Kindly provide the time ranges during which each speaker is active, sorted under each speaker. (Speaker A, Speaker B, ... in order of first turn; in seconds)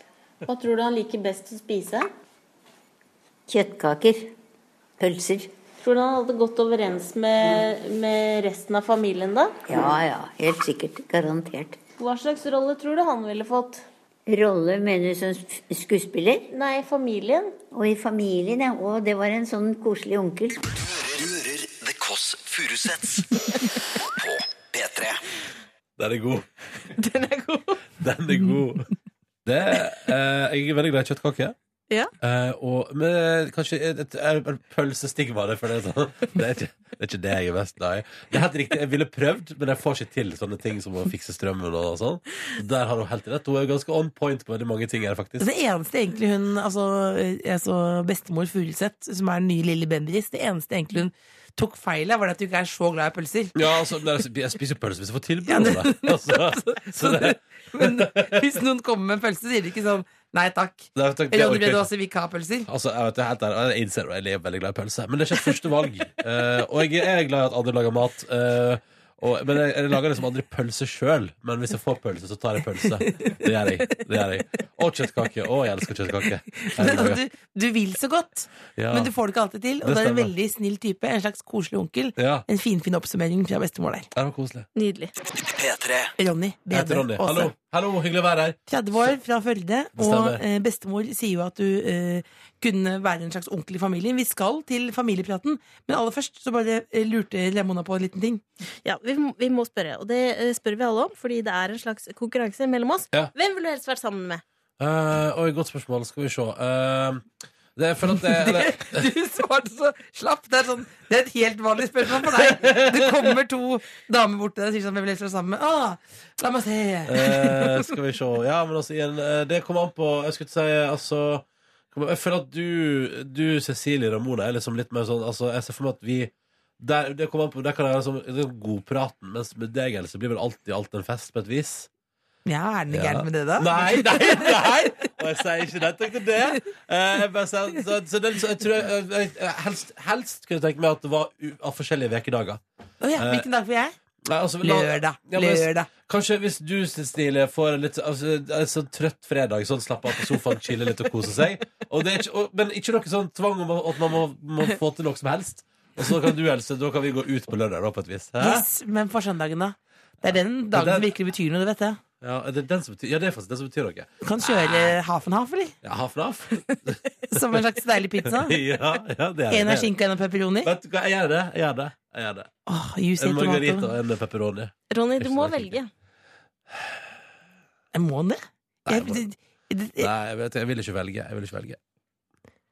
Speaker A: 0.5-2.1, 5.8-9.6, 12.0-13.8, 16.5-17.6, 26.9-27.8, 84.7-85.1, 98.8-104.4, 174.9-175.9
Speaker B: 3.5-4.3, 5.0-5.5, 9.7-11.8, 14.2-16.5, 17.7-20.7
Speaker C: 20.7-25.2, 85.4-86.1
Speaker D: 26.0-26.5, 28.0-28.9, 29.4-31.5, 32.2-45.5, 53.5-58.5, 61.0-61.9, 62.7-77.2, 78.8-79.1, 79.8-80.3, 82.2-82.5, 84.2-84.7, 86.7-88.6, 90.0-90.4, 104.8-109.1, 112.2-113.3, 117.1-131.9, 132.9-142.6, 143.2-143.5, 144.2-158.6, 160.7-161.1, 162.2-164.9, 165.8-167.6, 168.2-169.9, 170.6-172.5, 173.2-175.8, 178.9-179.2, 180.0-181.8
Speaker E: 45.4-53.5, 55.5-62.7, 76.6-84.1, 86.2-87.5, 88.7-98.4, 108.3-117.9, 132.4-135.1, 143.0-143.9, 144.6-145.9, 158.4-162.0, 164.2-165.7, 167.3-168.6, 169.5-170.7, 172.7-173.9, 177.9-180.1